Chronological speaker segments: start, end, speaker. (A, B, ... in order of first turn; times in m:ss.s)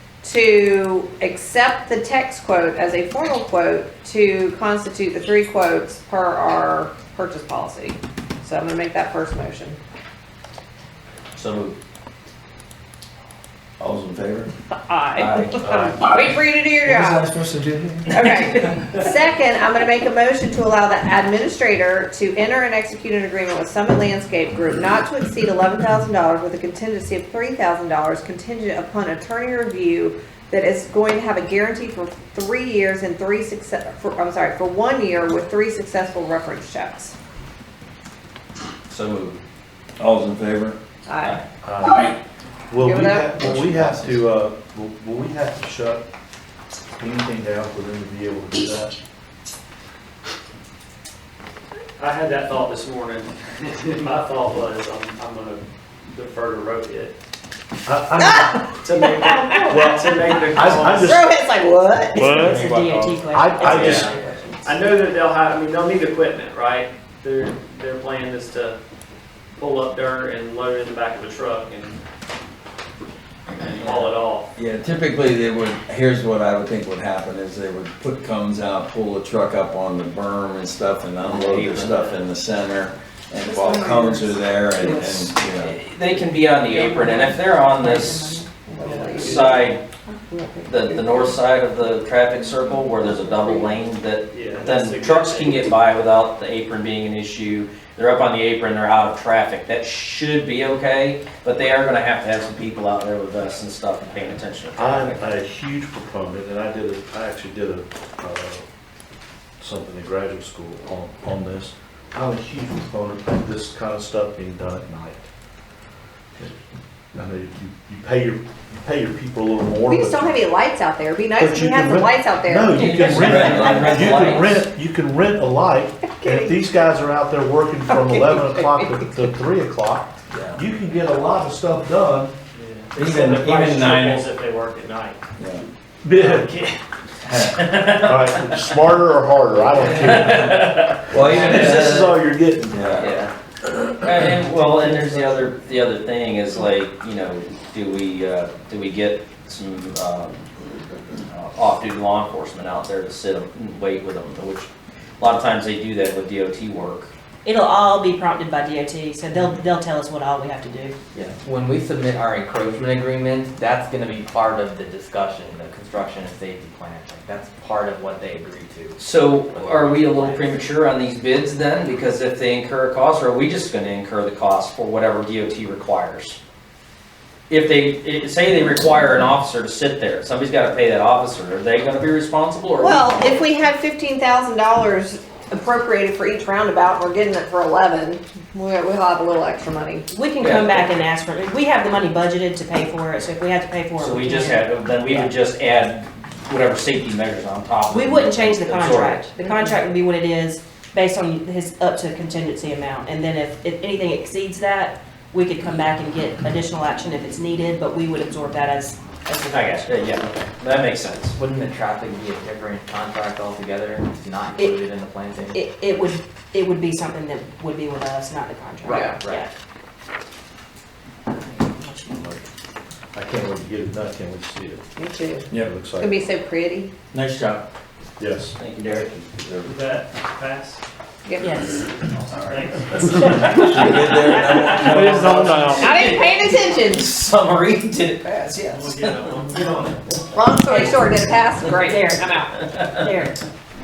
0:00.2-0:09.8 A
0:11.4-0:11.7 B
0:13.8-0:14.5 B
0:14.7-0:17.2 A
0:15.2-0:15.6 C
0:15.6-0:15.9 D
0:16.8-0:18.7 B
0:18.1-0:37.1 A
0:38.9-0:39.4 C
0:40.0-0:40.8 B
0:41.0-0:41.4 A
0:41.2-0:42.1 C
0:41.6-0:42.1 D
0:42.7-0:46.0 D
0:42.8-0:43.5 A
0:43.4-0:44.2 B
0:47.0-0:48.9 D
0:52.0-0:57.1 E
0:57.8-0:58.8 D
0:58.2-1:02.5 A
0:58.8-1:01.2 E
0:59.7-1:01.2 D
1:02.1-1:04.1 D
1:02.3-1:04.8 F
1:02.8-1:04.1 E
1:04.6-1:08.8 E
1:09.6-1:12.0 E
1:13.6-1:14.5 E
1:14.6-1:25.8 B
1:21.2-1:22.1 C
1:23.5-1:25.2 F
1:25.6-1:28.4 C
1:26.7-1:28.9 F
1:28.7-1:31.4 A
1:28.8-1:29.7 E
1:29.1-1:29.8 C
1:30.7-1:45.2 C
1:34.3-1:35.7 E
1:44.8-1:48.6 D
1:49.6-1:55.2 D
1:57.1-2:00.4 D
1:59.9-2:03.4 A
2:01.3-2:12.3 D
2:02.7-2:04.6 C
2:03.0-2:04.3 B
2:06.2-2:06.6 A
2:07.9-2:08.5 A
2:10.3-2:10.6 B
2:12.5-2:15.2 E
2:13.0-2:14.2 B
2:15.4-2:15.6 B
2:16.0-2:16.6 D
2:16.1-2:16.8 E
2:17.2-2:17.6 B
2:17.7-2:18.8 E
2:17.9-2:22.9 D
2:19.7-2:21.8 E
2:20.0-2:20.4 C
2:21.1-2:23.1 B
2:21.2-2:21.8 C
2:21.4-2:22.0 G
2:23.0-2:23.2 C
2:23.0-2:23.3 G
2:24.0-2:30.5 C
2:31.3-2:34.7 C
2:35.2-2:37.1 C
2:37.4-2:40.9 F
2:41.1-2:49.0 G
2:49.0-2:56.4 C
2:49.5-2:50.7 G
2:57.5-3:03.4 C
3:02.8-3:10.0 A
3:10.1-3:15.3 F
3:10.4-3:10.9 C
3:14.0-3:19.4 C
3:17.9-3:30.0 F
3:29.5-3:31.4 C
3:31.4-3:35.6 G
3:35.5-3:39.5 F
3:38.8-3:39.2 A
3:39.1-3:39.4 G
3:41.3-3:42.4 F
3:43.1-3:44.8 D
3:45.0-3:46.9 A
3:45.5-3:46.1 D
3:47.1-3:47.6 B
3:48.2-3:48.5 D
3:48.6-3:49.1 C
3:48.9-3:49.7 B
3:49.6-3:50.8 E
3:51.2-3:51.8 A
3:51.4-3:51.8 F
3:51.7-3:55.8 E
3:53.4-3:55.8 B
3:55.7-3:57.1 A
3:55.8-3:59.4 C
3:58.7-4:00.1 E
4:00.3-4:02.2 A
4:00.7-4:01.1 F
4:01.6-4:03.4 F